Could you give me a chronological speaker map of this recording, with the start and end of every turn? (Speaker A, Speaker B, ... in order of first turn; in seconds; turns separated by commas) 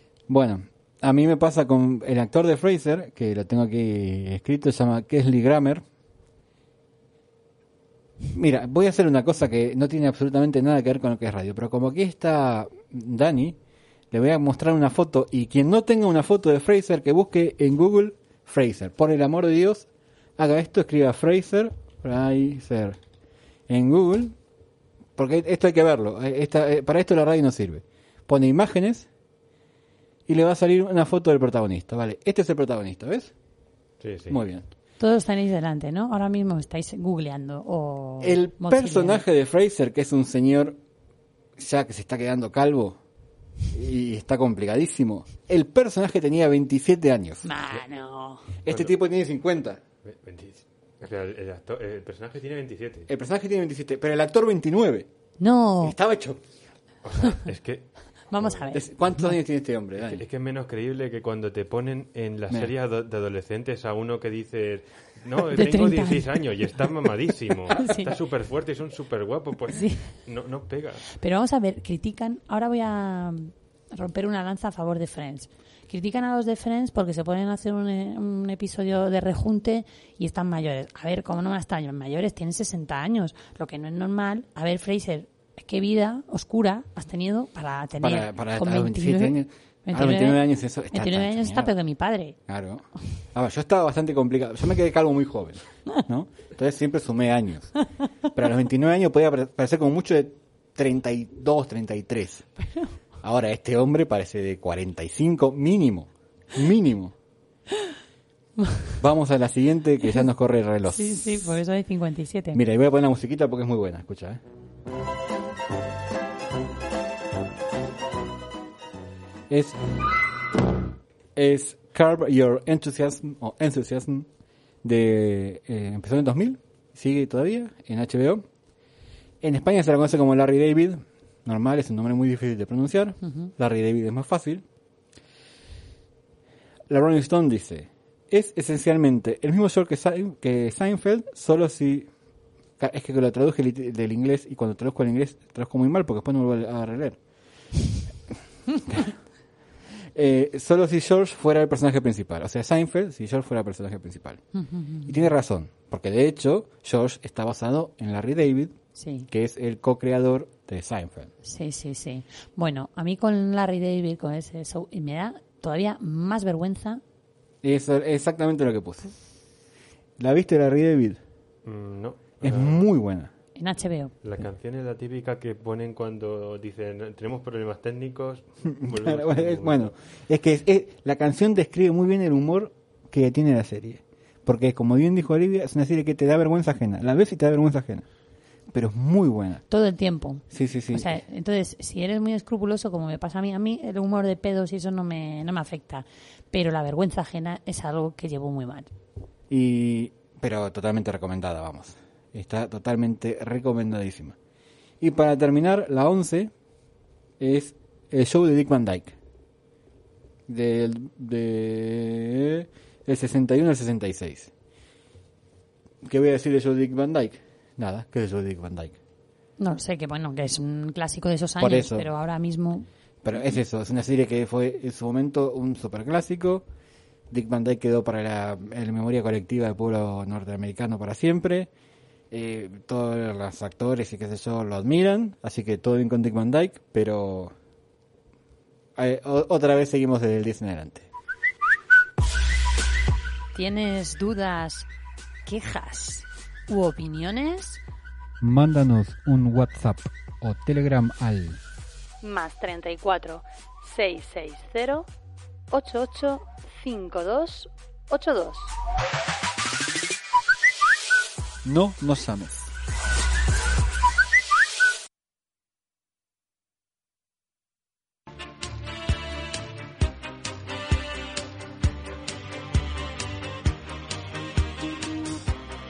Speaker A: 0.3-5.8, Speaker A: 8.2-13.6, Speaker A: 14.1-23.0, Speaker A: 23.7-24.4, Speaker A: 25.2-29.1, Speaker A: 30.3-33.3, Speaker B: 34.0-34.4, Speaker A: 34.3-34.6, Speaker C: 35.0-39.2, Speaker A: 38.2-40.8, Speaker A: 41.6-43.0, Speaker A: 43.7-47.5, Speaker C: 47.4-48.5, Speaker A: 48.6-49.8, Speaker B: 48.7-48.9, Speaker B: 50.0-53.1, Speaker A: 53.1-55.1, Speaker C: 55.4-56.0, Speaker A: 55.8-56.4, Speaker B: 57.0-58.7, Speaker C: 58.3-58.9, Speaker A: 58.7-60.2, Speaker B: 60.0-71.1, Speaker C: 65.5-66.3, Speaker C: 67.8-68.2, Speaker C: 69.7-70.2, Speaker C: 71.2-92.4, Speaker A: 88.0-91.7, Speaker A: 92.5-97.7, Speaker A: 98.3-102.5, Speaker C: 102.6-102.9, Speaker A: 103.2-107.1, Speaker A: 109.0-111.6, Speaker C: 110.8-112.6, Speaker A: 112.5-114.4, Speaker A: 119.5-119.8, Speaker A: 121.3-124.3, Speaker A: 124.8-128.4, Speaker A: 129.4-134.6, Speaker C: 133.2-133.5, Speaker A: 136.9-142.1, Speaker A: 142.8-147.2, Speaker A: 148.9-149.2, Speaker A: 150.1-154.4, Speaker C: 154.6-155.2, Speaker A: 155.1-158.8, Speaker C: 158.9-159.3, Speaker A: 159.3-161.3, Speaker C: 161.4-167.0, Speaker A: 167.6-169.1, Speaker A: 170.2-171.2, Speaker B: 171.6-172.8, Speaker A: 172.4-173.3, Speaker C: 173.6-174.1, Speaker B: 174.2-179.9, Speaker A: 178.8-188.1, Speaker A: 188.7-189.6, Speaker C: 189.7-198.9, Speaker A: 190.5-191.1, Speaker A: 199.5-204.4, Speaker A: 205.0-206.5, Speaker A: 207.4-209.2, Speaker A: 210.5-214.5, Speaker A: 216.0-219.0, Speaker C: 219.6-222.9, Speaker A: 221.6-222.1, Speaker A: 223.2-226.7, Speaker A: 227.3-231.7, Speaker A: 232.3-237.6, Speaker A: 238.9-241.1, Speaker C: 243.5-244.9, Speaker C: 245.4-247.8, Speaker A: 248.4-251.6, Speaker C: 252.2-255.1, Speaker C: 255.7-258.7, Speaker A: 261.6-262.7